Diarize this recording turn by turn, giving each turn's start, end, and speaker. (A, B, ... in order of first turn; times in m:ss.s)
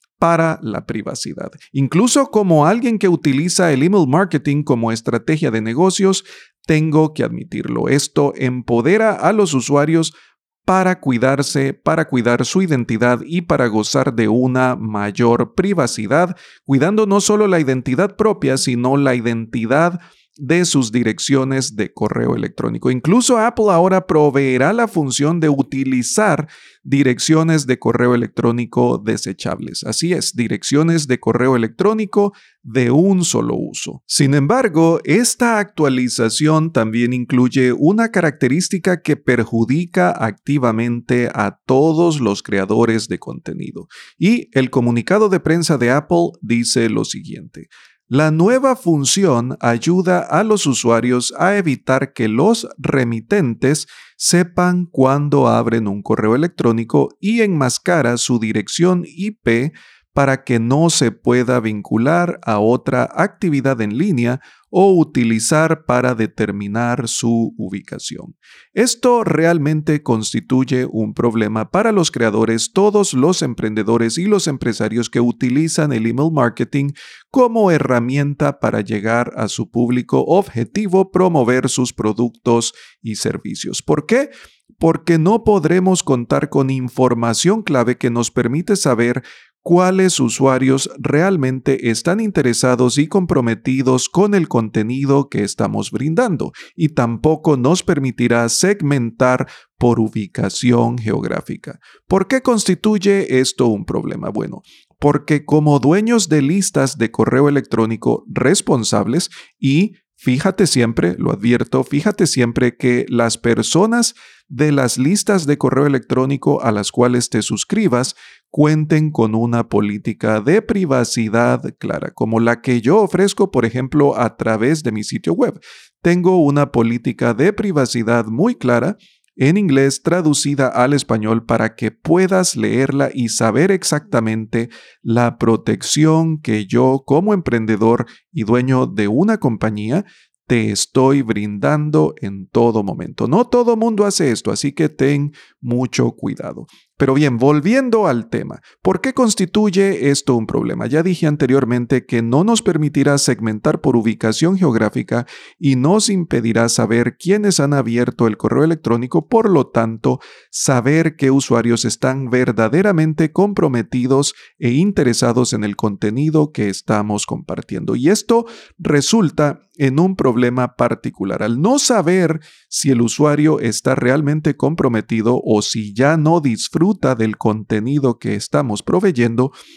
0:00.2-0:10.2 A
0:10.7-2:59.5 A